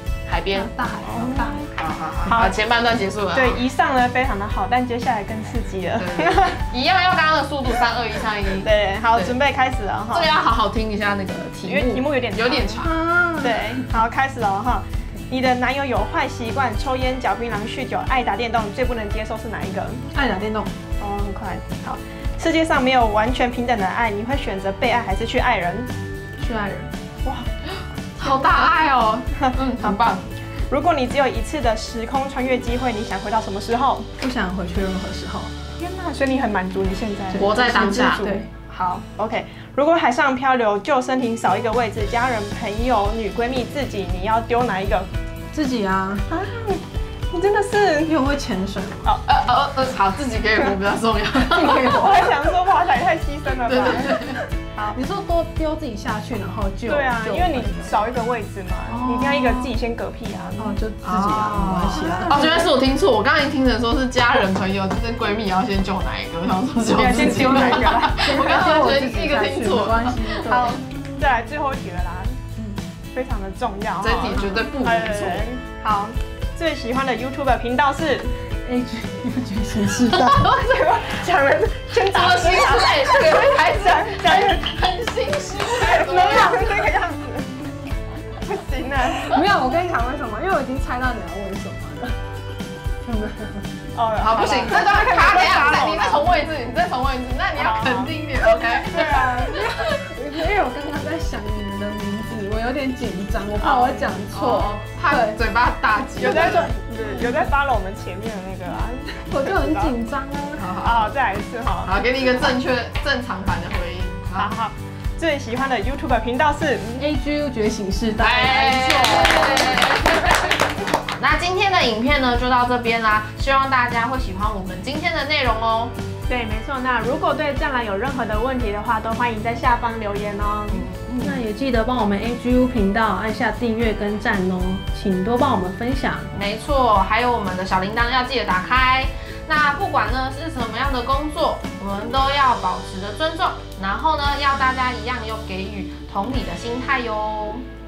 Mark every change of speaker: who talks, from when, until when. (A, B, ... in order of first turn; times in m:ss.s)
0:00.3-0:00.7 A
0:00.5-0:01.7 B
0:01.2-0:01.7 C
0:01.7-0:03.6 A
0:02.2-0:02.6 C
0:03.3-0:06.6 C
0:06.0-0:09.4 A
0:08.6-0:10.3 C
0:10.1-0:12.9 A
0:11.6-0:20.0 C
0:12.8-0:13.7 B
0:20.1-0:20.7 B
0:21.0-0:25.9 C
0:26.4-0:26.9 B
0:28.2-0:30.3 A
0:30.7-0:34.1 C
0:34.2-0:35.5 B
0:35.8-0:45.1 C
0:37.3-0:38.5 B
0:37.3-0:38.3 A
0:45.5-0:46.3 B
0:46.3-0:48.2 C
0:48.0-0:49.1 B
0:49.3-0:52.1 A
0:51.4-0:52.4 B
0:51.6-0:54.2 C
0:53.7-0:54.4 A
0:53.9-0:54.4 B
0:54.9-0:58.0 B
0:56.9-1:00.8 C
0:58.9-0:59.7 B
1:00.6-1:02.6 B
1:01.0-1:10.8 A
1:02.0-1:02.6 C
1:06.8-1:08.2 C
1:06.9-1:10.8 B
1:10.4-1:12.4 C
1:13.1-1:18.3 C
1:14.0-1:15.5 A
1:18.6-1:20.4 B
1:20.2-1:24.8 C
1:22.0-1:26.8 A
1:25.6-1:27.5 C
1:28.4-1:29.2 C
1:29.0-1:32.2 B
1:33.0-1:33.8 B
1:34.0-1:36.3 C
1:34.2-1:39.9 A
1:34.3-1:35.0 B
1:37.6-1:38.2 C
1:38.9-1:39.4 C
1:39.1-1:45.4 B
1:43.6-1:44.1 C
1:44.3-1:46.7 A
1:46.2-1:49.9 C
1:46.9-1:47.4 B
1:49.3-1:50.7 B
1:50.6-1:51.1 A
1:50.8-1:52.0 C
1:51.8-1:54.5 A
1:54.4-1:57.1 C
1:57.0-2:00.1 B
1:58.2-2:00.5 A
1:59.2-1:59.8 C
2:01.1-2:05.9 A
2:06.3-2:10.9 C
2:10.7-2:11.4 A
2:11.2-2:16.3 B
2:16.3-2:27.6 A